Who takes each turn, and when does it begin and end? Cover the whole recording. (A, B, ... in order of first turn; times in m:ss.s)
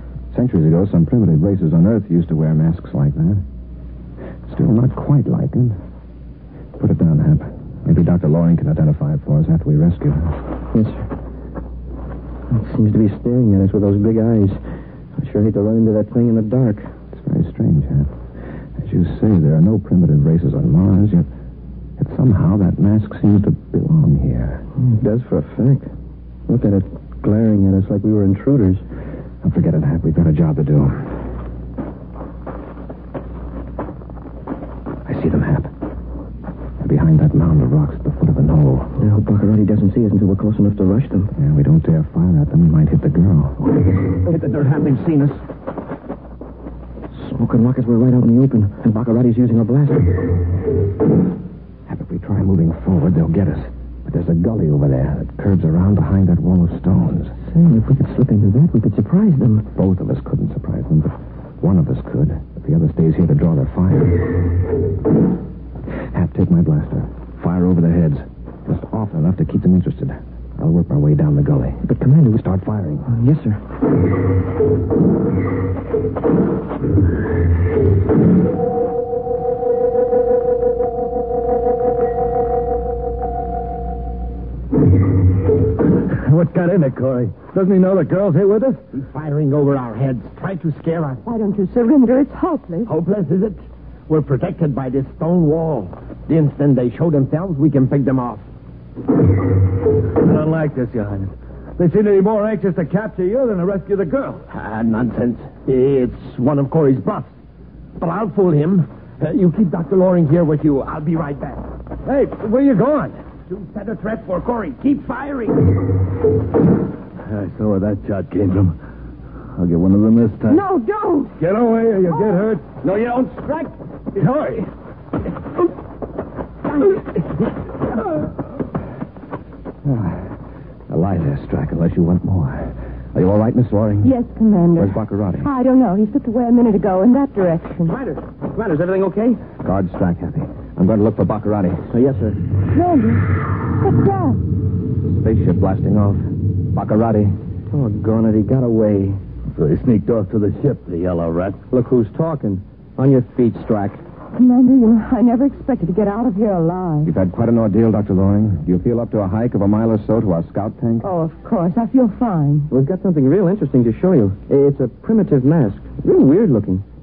0:00.3-0:03.4 A
0:04.5-0:05.8 A
0:06.8-0:10.4 A
0:10.7-0:11.1 B
0:12.5-0:14.6 B
0:15.2-0:17.0 B
0:17.1-0:18.1 A
0:18.8-0:21.3 A
0:22.0-0:24.6 A
0:24.8-0:25.9 B
0:26.5-0:28.8 B
0:29.4-0:31.2 A
0:35.0-0:35.7 A
0:36.8-0:39.0 A
0:39.0-0:41.3 B
0:41.4-0:43.8 A
0:44.5-0:45.3 C
0:47.1-0:49.2 B
0:48.9-0:50.1 A
0:51.9-0:57.4 A
0:57.4-0:59.7 B
0:59.8-1:04.4 A
1:06.1-1:13.1 A
1:11.9-1:12.3 B
1:13.1-1:13.6 B
1:26.0-1:28.8 D
1:28.9-1:31.2 C
1:31.2-1:32.9 E
1:32.9-1:38.4 C
1:40.2-1:44.4 D
1:44.5-1:47.3 C
1:48.0-1:55.7 C
1:52.1-1:52.8 D
1:57.2-1:58.8 D
1:59.6-2:00.6 D
2:00.5-2:01.4 E
2:01.4-2:02.8 D
2:02.8-2:03.7 C
2:04.2-2:04.7 D
2:09.8-2:10.3 A
2:10.9-2:14.1 A
2:14.0-2:18.0 E
2:14.8-2:15.5 A
2:18.0-2:19.4 B
2:19.6-2:22.0 A
2:21.9-2:22.4 B
2:22.7-2:24.4 E
2:25.1-2:27.4 A
2:27.7-2:29.2 B
2:29.6-2:31.6 D
2:31.7-2:34.0 B
2:34.4-2:37.1 E
2:37.0-2:41.1 A
2:41.0-2:42.7 E
2:42.7-2:46.8 B